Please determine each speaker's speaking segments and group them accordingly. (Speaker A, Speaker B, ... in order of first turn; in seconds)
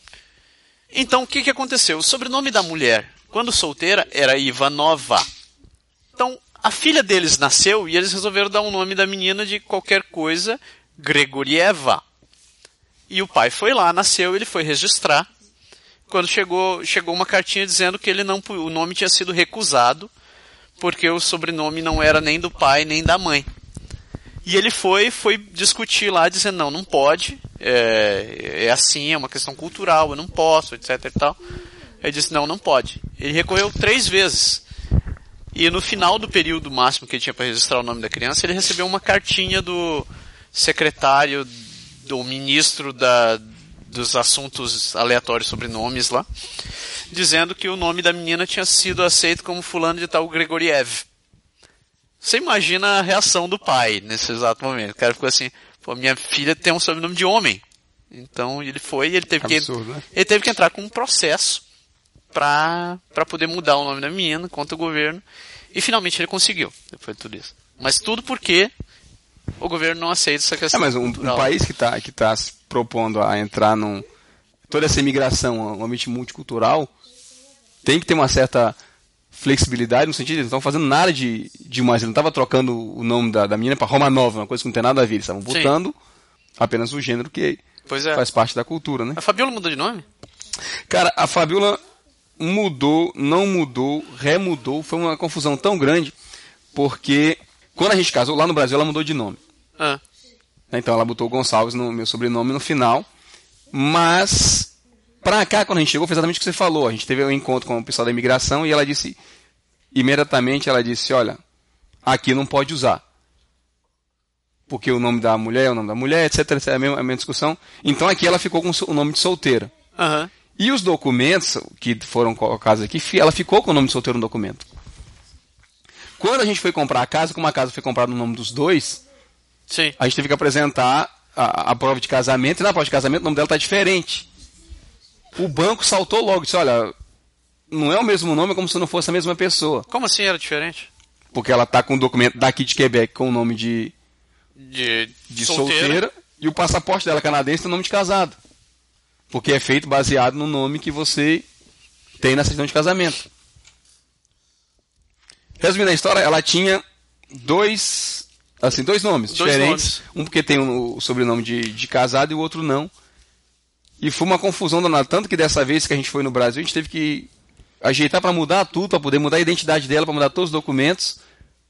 Speaker A: 0.9-5.3, 6.2-12.0, 13.1-15.3, 16.1-20.1, 20.8-23.5, 24.4-31.4, 32.0-34.6, 35.5-46.3, 47.1-51.0, 52.2-61.6, 62.3-65.2, 65.7-68.7, 69.6-71.5, 85.5-85.7, 87.9-88.2, 89.2-90.1, 120.0-120.3, 129.7-130.0, 139.9-140.9, 144.6-146.0, 159.3-160.0
Speaker B: 59.4-60.0, 70.7-74.0, 74.7-76.9, 77.8-78.8, 79.3-86.0, 86.6-87.6, 88.1-89.2, 90.9-91.8, 92.4-96.1, 96.7-99.4, 100.7-103.1, 103.7-109.2, 109.9-111.4, 112.0-113.0, 114.7-119.7, 120.6-124.7, 126.2-129.0, 130.0-134.3, 135.4-136.9, 137.7-139.9, 141.3-143.9, 145.3-148.4, 149.3-151.4, 152.2-153.2, 155.6-156.8, 157.3-162.9, 164.0-167.3, 167.8-171.2